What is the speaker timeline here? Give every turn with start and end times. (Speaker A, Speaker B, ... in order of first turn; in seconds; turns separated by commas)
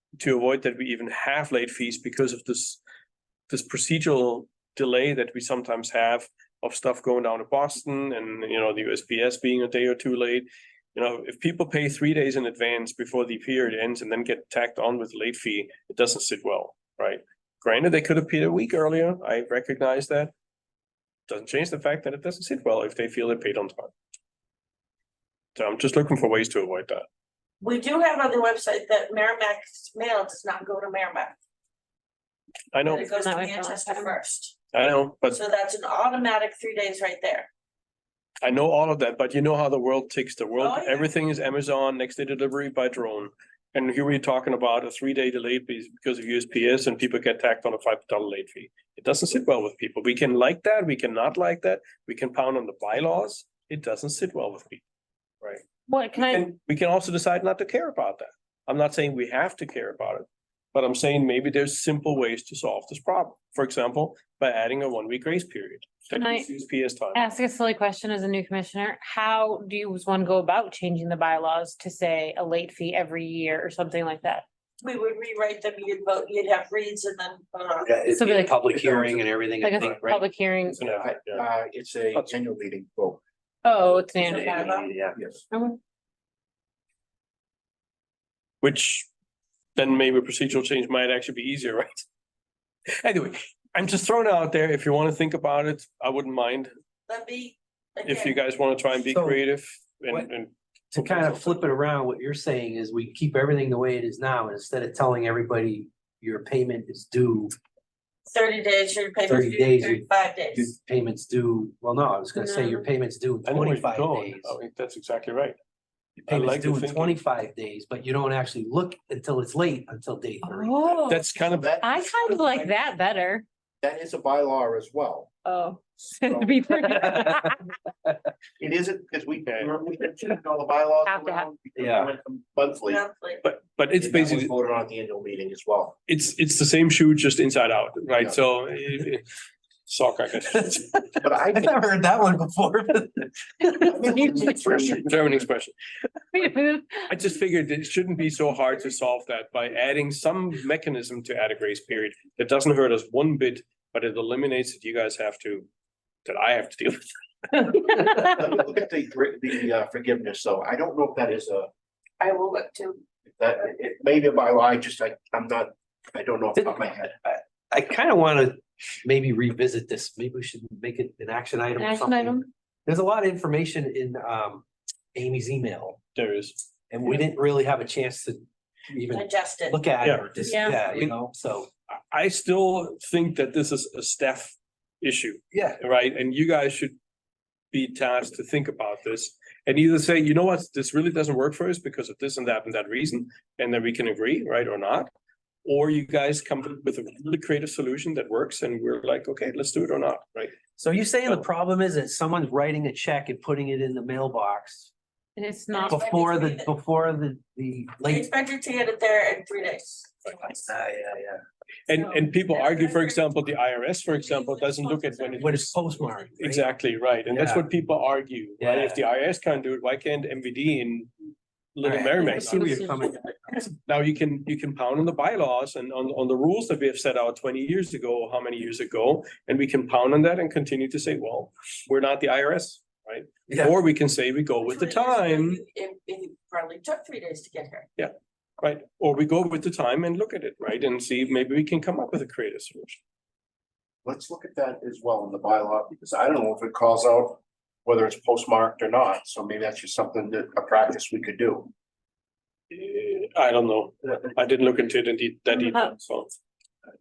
Speaker A: 0.2-2.8, Speaker A: 3.5-20.3, Speaker A: 21.3-23.9, Speaker A: 25.6-27.1, Speaker B: 27.6-31.4, Speaker A: 32.7-33.1, Speaker B: 32.8-34.6, Speaker C: 33.0-34.1, Speaker A: 34.7-35.4, Speaker B: 35.3-37.5, Speaker A: 38.4-54.8, Speaker B: 40.6-41.1, Speaker C: 55.9-56.5, Speaker A: 56.2-67.3, Speaker C: 66.2-66.5, Speaker C: 67.1-74.5, Speaker B: 74.8-77.9, Speaker D: 77.8-80.0, Speaker C: 78.1-78.7, Speaker E: 78.7-79.3, Speaker C: 79.6-80.9, Speaker E: 79.8-80.2, Speaker A: 80.7-81.5, Speaker E: 80.8-83.2, Speaker C: 83.6-84.8, Speaker B: 84.2-84.9, Speaker E: 84.6-85.4, Speaker D: 84.7-85.1, Speaker C: 85.5-85.8, Speaker A: 88.6-89.1, Speaker A: 89.8-92.1, Speaker A: 93.0-96.7, Speaker B: 97.1-98.4, Speaker A: 98.0-101.7, Speaker D: 99.1-99.4, Speaker D: 100.9-107.5, Speaker B: 108.3-110.7, Speaker D: 109.3-114.5, Speaker C: 112.4-112.8, Speaker A: 113.5-115.6, Speaker A: 116.3-117.2, Speaker D: 116.3-120.9, Speaker C: 120.4-123.5, Speaker A: 121.1-121.8, Speaker E: 121.5-122.8, Speaker E: 123.8-125.3, Speaker C: 125.5-127.7, Speaker E: 126.2-126.6, Speaker D: 126.8-128.2, Speaker E: 128.6-133.0, Speaker C: 131.1-131.5, Speaker D: 131.8-132.1, Speaker B: 132.9-133.4, Speaker A: 133.4-134.5, Speaker E: 134.0-136.0, Speaker A: 136.1-139.3, Speaker A: 139.9-140.9, Speaker D: 140.7-144.7, Speaker E: 141.2-141.6, Speaker E: 143.9-145.5, Speaker A: 144.6-145.7, Speaker C: 146.3-147.1, Speaker A: 147.1-155.7, Speaker A: 156.2-157.1, Speaker E: 158.2-161.7, Speaker B: 162.2-163.0, Speaker E: 163.4-167.1, Speaker D: 166.6-176.0, Speaker C: 171.8-172.5, Speaker A: 176.2-177.2, Speaker D: 176.9-181.7, Speaker B: 179.1-179.8, Speaker A: 180.0-181.2, Speaker C: 180.5-180.8, Speaker A: 182.1-187.0, Speaker D: 185.5-185.8, Speaker A: 187.7-195.1, Speaker A: 195.7-200.6, Speaker D: 200.8-204.9, Speaker C: 205.4-206.0, Speaker B: 205.7-206.7, Speaker D: 205.9-208.3, Speaker B: 208.1-210.7, Speaker D: 210.4-211.4, Speaker A: 211.9-221.1, Speaker B: 211.9-213.4, Speaker B: 214.1-215.7, Speaker D: 215.4-216.7, Speaker D: 217.3-217.7, Speaker D: 218.6-219.0, Speaker A: 221.8-223.0, Speaker D: 221.8-223.2, Speaker C: 222.2-223.1, Speaker A: 223.8-235.6, Speaker B: 234.6-237.9, Speaker A: 238.0-243.0, Speaker E: 244.1-251.7, Speaker A: 252.7-256.3